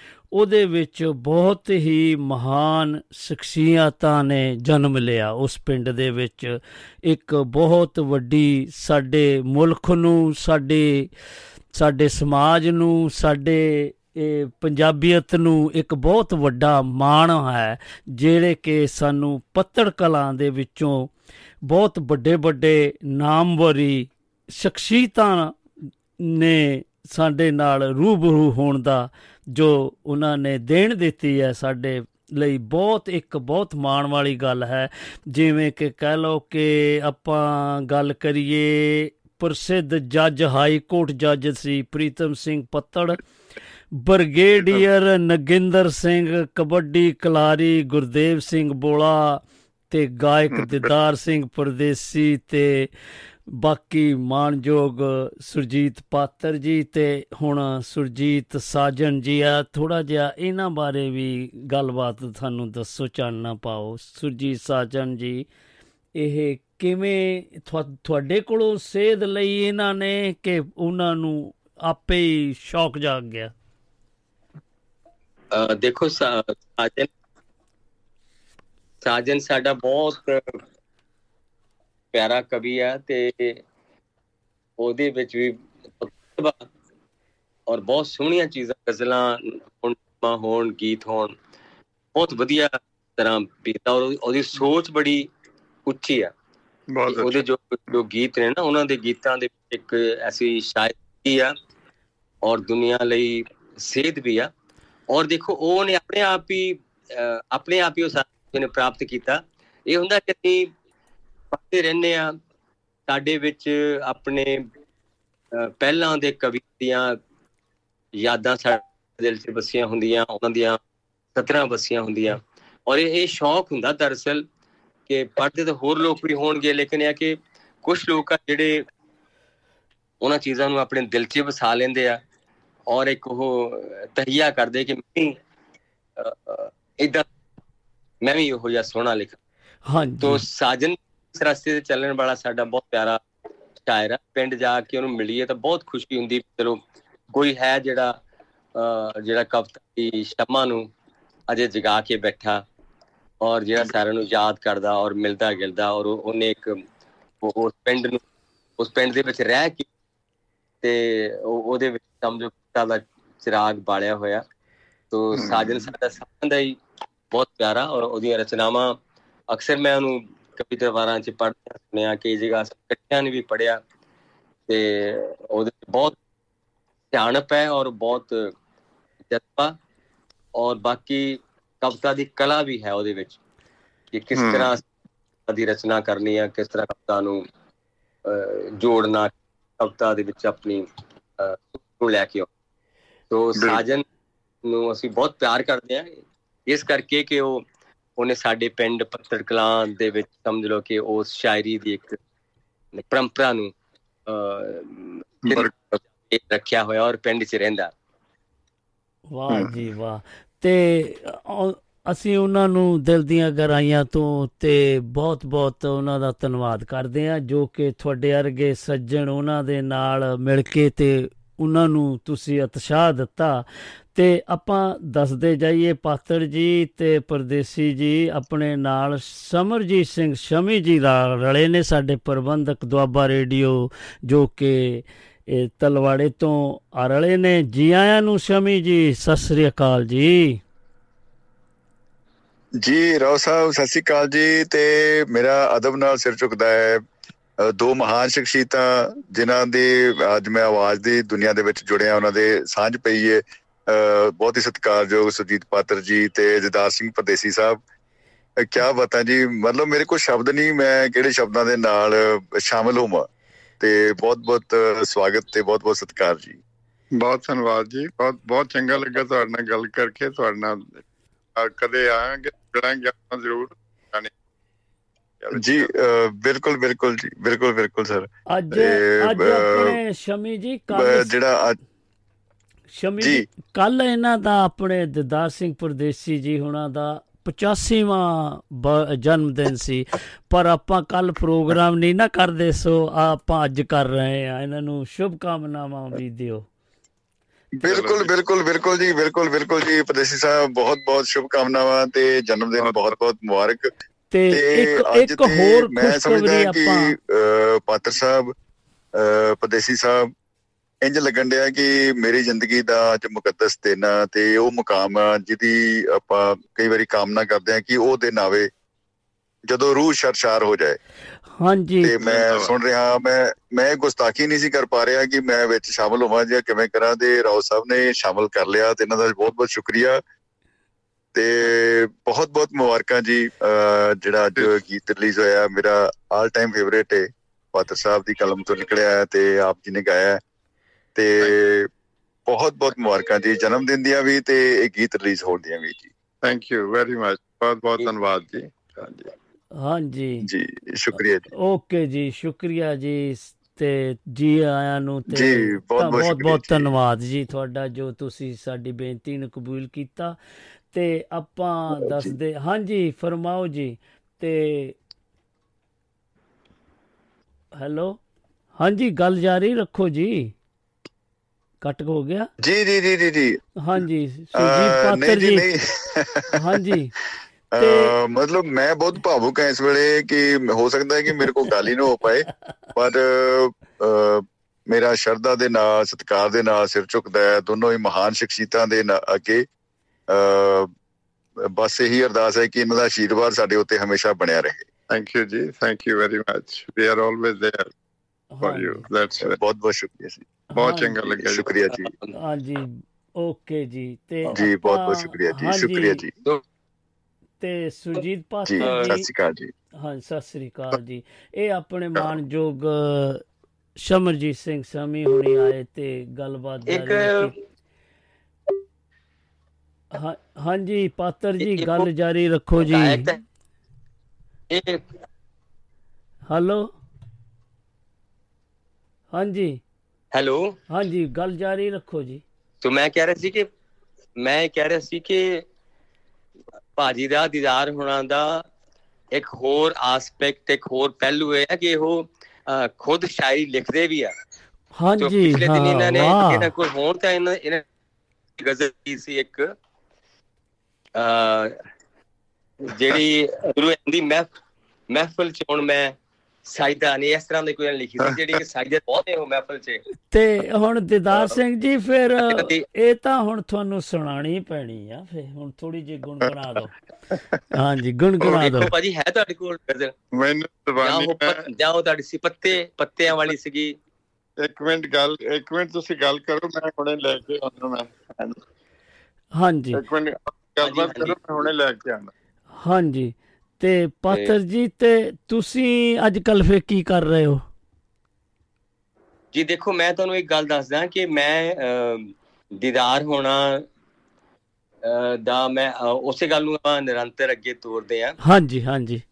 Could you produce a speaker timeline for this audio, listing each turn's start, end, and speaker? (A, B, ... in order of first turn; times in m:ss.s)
0:00.3-0:11.1 A
0:11.7-0:21.1 A
0:21.6-0:25.6 A
0:26.2-0:43.2 A
0:43.9-0:52.9 A
0:50.5-0:50.9 B
0:53.5-1:05.5 A
1:06.1-1:13.5 A
1:15.5-1:17.1 C
1:19.0-1:20.6 C
1:22.1-1:23.6 C
1:24.8-1:26.7 C
1:27.7-1:31.4 C
1:32.1-1:35.3 C
1:35.8-1:36.3 C
1:36.9-1:37.4 B
1:37.1-1:41.5 C
1:42.4-1:44.5 C
1:45.1-1:50.7 C
1:51.5-1:52.4 C
1:53.1-1:54.7 C
1:55.5-1:57.2 C
1:58.2-2:00.8 C
2:01.4-2:04.4 C
2:05.1-2:08.8 C
2:10.2-2:12.2 C
2:12.9-2:15.4 C
2:16.2-2:17.2 C
2:18.2-2:19.4 C
2:19.9-2:20.4 A
2:20.2-2:23.2 C
2:23.8-2:26.8 C
2:27.3-2:28.2 C
2:28.7-2:30.9 C
2:31.5-2:32.6 C
2:33.4-2:36.8 C
2:37.4-2:38.2 C
2:38.8-2:39.8 C
2:40.8-2:44.4 C
2:45.1-2:46.8 C
2:45.4-2:45.9 B
2:47.3-2:49.0 C
2:49.5-2:53.8 C
2:54.7-2:56.2 C
2:57.1-2:58.5 C
2:59.3-2:59.8 C
3:00.5-3:03.4 C
3:04.1-3:04.8 C
3:04.3-3:04.7 B
3:05.5-3:07.4 C
3:08.2-3:10.8 C
3:11.4-3:12.5 C
3:13.3-3:14.0 C
3:13.6-3:13.8 B
3:14.6-3:16.1 C
3:16.7-3:17.6 C
3:18.2-3:22.2 C
3:23.0-3:23.7 C
3:24.2-3:27.9 C
3:25.4-3:25.7 B
3:29.3-3:43.6 A
3:44.1-4:00.6 A
4:02.8-4:07.0 D
4:07.7-4:17.8 D
4:18.6-4:23.3 D
4:23.8-4:26.6 D
4:27.2-4:31.0 B
4:31.6-4:34.3 B
4:35.4-4:35.9 B
4:35.5-4:40.0 D
4:38.5-4:41.3 A
4:40.9-4:41.8 D
4:43.0-4:56.6 A
4:43.2-4:43.4 D
4:57.8-5:03.9 D
4:57.8-4:58.3 B
5:04.3-5:07.1 A
5:04.5-5:08.5 D
5:09.1-5:10.3 D
5:11.0-5:18.7 D
5:19.6-5:21.0 D
5:21.6-5:22.1 A
5:22.0-5:30.2 D
5:22.2-5:22.8 B
5:31.3-5:40.4 D
5:41.1-5:41.9 D
5:42.5-5:46.1 D
5:46.4-5:49.3 B
5:49.8-5:50.4 A
5:50.4-5:51.4 D
5:51.5-6:00.4 A
5:55.3-5:56.9 D
6:00.9-6:05.0 A
6:01.9-6:02.4 D
6:07.8-6:08.2 A
6:08.8-6:10.5 A
6:11.8-6:12.5 A
6:12.6-6:13.6 D
6:13.8-6:15.6 A
6:14.6-6:16.6 D
6:16.5-6:17.1 A
6:17.7-6:29.6 D
6:17.8-6:18.1 A
6:30.3-6:30.9 D
6:31.7-6:34.8 D
6:35.1-6:37.9 B
6:38.6-6:39.0 A
6:38.6-6:39.6 B
6:39.4-6:40.5 D
6:40.7-6:41.1 A
6:40.8-6:41.7 B
6:41.3-6:42.1 D
6:41.9-6:42.3 C
6:42.3-6:46.2 A
6:44.5-6:46.3 D
6:47.6-6:49.3 A
6:48.6-6:49.7 D
6:48.8-6:49.1 C
6:50.0-6:53.4 A
6:54.0-6:57.5 A
6:56.9-6:57.5 C
7:00.1-7:03.3 A
7:01.6-7:02.1 C
7:02.8-7:03.4 C
7:04.7-7:05.0 C
7:06.5-7:06.9 A
7:09.3-7:09.8 A
7:10.3-7:10.8 C
7:10.9-7:12.4 A
7:12.8-7:13.7 C
7:14.4-7:15.6 C
7:17.0-7:18.6 C
7:19.3-7:24.3 C
7:25.0-7:26.7 A
7:25.2-7:27.8 C
7:28.6-7:29.7 C
7:31.2-7:31.8 C
7:32.9-7:34.5 C
7:35.1-7:40.0 C
7:40.3-7:46.9 A
7:42.4-7:42.8 C
7:47.4-7:47.6 B
7:47.7-7:48.9 A
7:48.4-7:50.1 C
7:50.3-7:51.6 B
7:51.0-7:53.9 C
7:54.6-7:58.6 B
7:59.6-8:00.0 A
7:59.9-8:02.3 B
8:00.8-8:01.3 C
8:02.8-8:07.6 A
8:09.5-8:13.8 C
8:15.0-8:18.4 C
8:18.4-8:19.2 A